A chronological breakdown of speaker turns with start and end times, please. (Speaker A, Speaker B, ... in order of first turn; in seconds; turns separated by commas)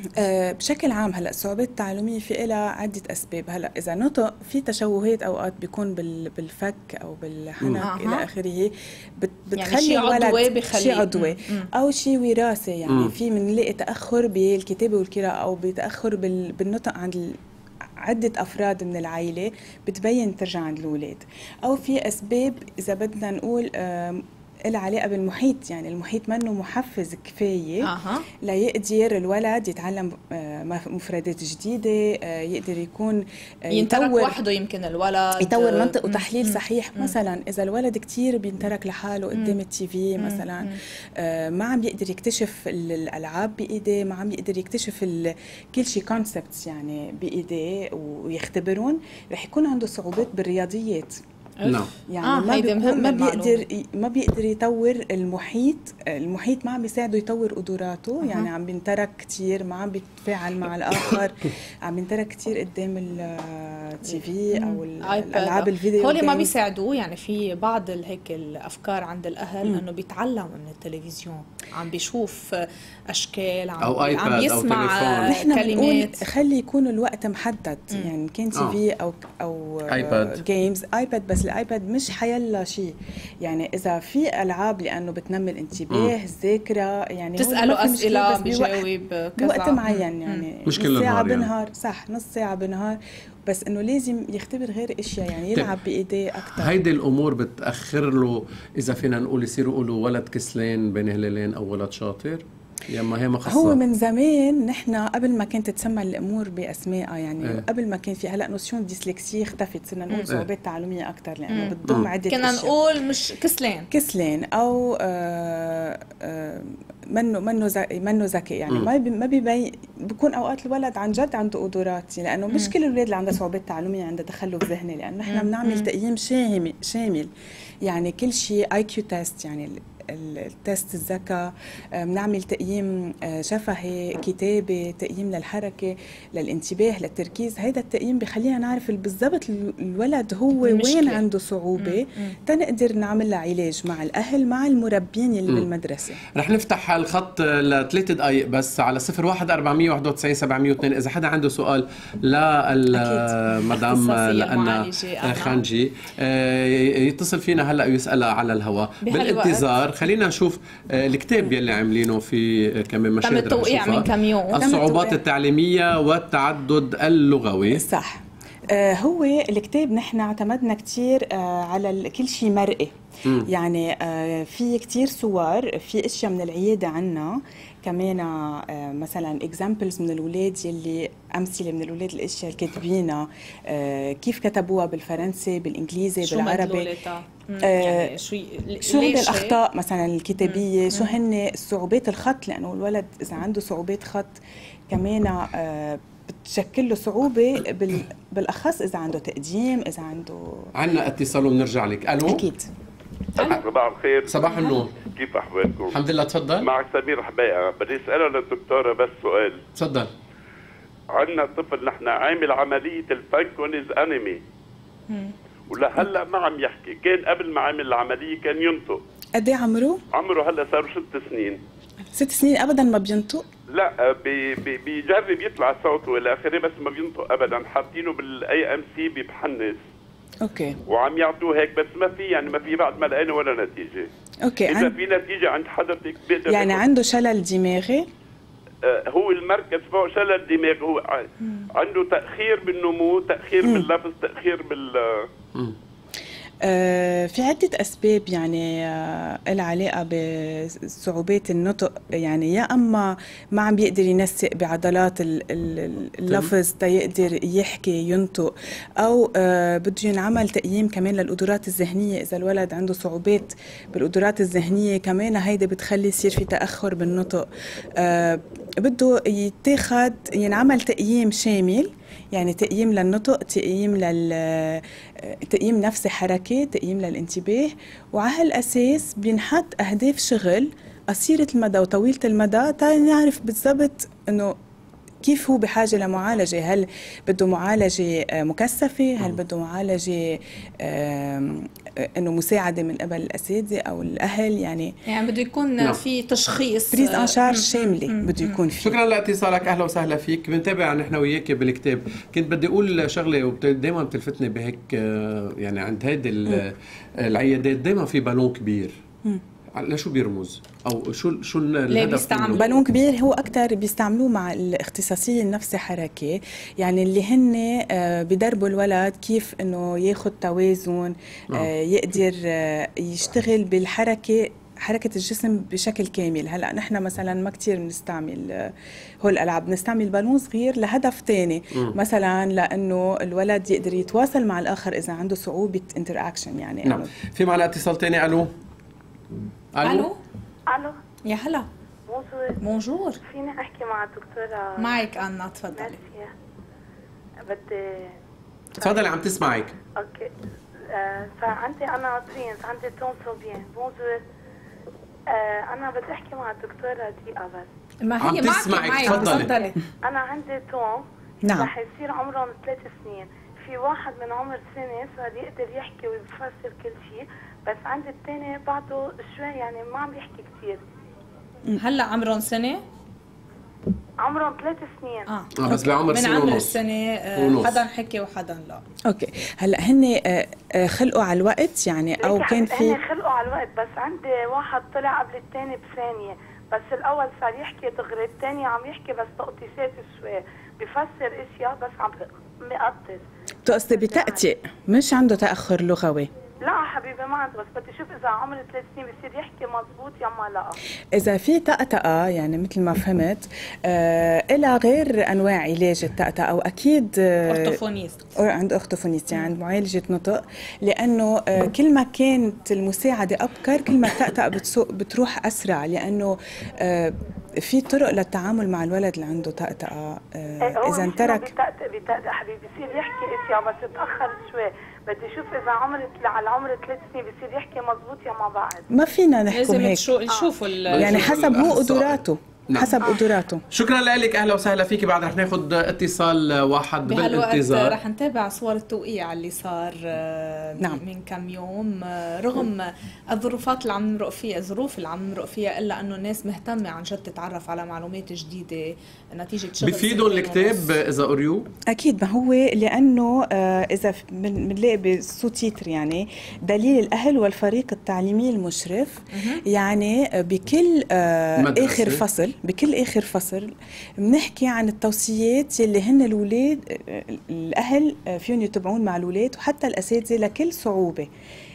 Speaker A: 0.1-17.4, Speaker B: 7.8-8.2, Speaker B: 9.6-11.7, Speaker A: 18.0-27.9, Speaker B: 27.8-28.2, Speaker A: 28.4-34.4, Speaker B: 33.7-37.1, Speaker A: 35.4-51.2, Speaker B: 40.2-40.8, Speaker B: 51.6-53.6, Speaker C: 51.6-51.9, Speaker A: 52.1-66.5, Speaker B: 58.2-58.5, Speaker B: 64.5-76.2, Speaker C: 73.8-75.3, Speaker A: 75.3-88.8, Speaker C: 79.9-80.4, Speaker B: 87.4-90.4, Speaker A: 89.4-96.8, Speaker C: 90.7-91.5, Speaker C: 96.5-103.8, Speaker A: 103.5-112.7, Speaker B: 111.5-111.8, Speaker B: 112.3-113.9, Speaker A: 113.9-127.3, Speaker B: 125.2-125.9, Speaker A: 127.8-146.2, Speaker B: 140.6-141.2, Speaker B: 141.8-142.3, Speaker C: 146.3-167.8, Speaker B: 153.7-155.6, Speaker B: 159.0-159.7, Speaker B: 163.2-164.7, Speaker A: 164.6-165.2, Speaker A: 167.7-186.9, Speaker B: 186.2-189.6, Speaker A: 187.6-188.1, Speaker A: 188.8-194.4, Speaker B: 190.4-191.1, Speaker A: 194.9-200.7, Speaker C: 200.7-202.4, Speaker A: 202.2-202.7, Speaker B: 203.3-203.6, Speaker D: 203.5-204.4, Speaker C: 204.3-205.0, Speaker D: 205.1-206.0, Speaker C: 205.9-206.7, Speaker D: 206.6-209.6, Speaker C: 209.7-210.1, Speaker D: 211.1-214.4, Speaker D: 215.7-219.0, Speaker A: 219.3-220.0, Speaker D: 220.1-221.6, Speaker A: 222.1-223.4, Speaker D: 223.7-229.8, Speaker A: 230.4-230.8, Speaker D: 230.9-234.1, Speaker A: 234.4-235.0, Speaker D: 234.6-236.8, Speaker A: 236.5-238.0, Speaker D: 238.8-245.3, Speaker A: 243.6-243.9, Speaker A: 246.6-267.4, Speaker A: 268.0-284.5, Speaker A: 285.2-294.9, Speaker B: 295.1-298.6, Speaker A: 296.9-299.0, Speaker C: 298.8-309.0, Speaker C: 309.8-312.7, Speaker B: 311.9-312.8, Speaker A: 312.6-337.1, Speaker C: 336.8-338.5, Speaker C: 339.7-340.1, Speaker B: 339.8-340.2, Speaker E: 340.7-340.9, Speaker B: 341.2-341.7, Speaker E: 342.1-342.6, Speaker B: 342.6-343.2, Speaker E: 343.2-345.2, Speaker B: 344.8-346.0, Speaker E: 345.7-346.3, Speaker E: 347.5-348.1, Speaker C: 348.8-349.8, Speaker E: 349.9-350.3, Speaker E: 350.9-354.2, Speaker E: 355.3-357.7, Speaker B: 358.0-359.8, Speaker C: 358.2-359.5, Speaker E: 360.0-370.8, Speaker A: 361.4-361.7, Speaker B: 371.8-372.8, Speaker E: 374.2-375.3, Speaker B: 375.3-378.8, Speaker C: 375.6-376.8, Speaker C: 377.4-377.8, Speaker A: 379.1-383.0, Speaker E: 382.2-394.4, Speaker A: 393.6-396.3, Speaker E: 396.6-400.8, Speaker A: 401.1-407.8, Speaker B: 407.5-408.4, Speaker A: 408.4-421.5, Speaker E: 420.6-428.9, Speaker A: 428.9-430.1, Speaker B: 429.5-431.3, Speaker A: 430.9-433.6, Speaker C: 430.9-438.0, Speaker B: 437.0-450.9, Speaker C: 449.8-451.7, Speaker A: 451.9-471.3, Speaker B: 459.3-459.6, Speaker C: 461.6-462.2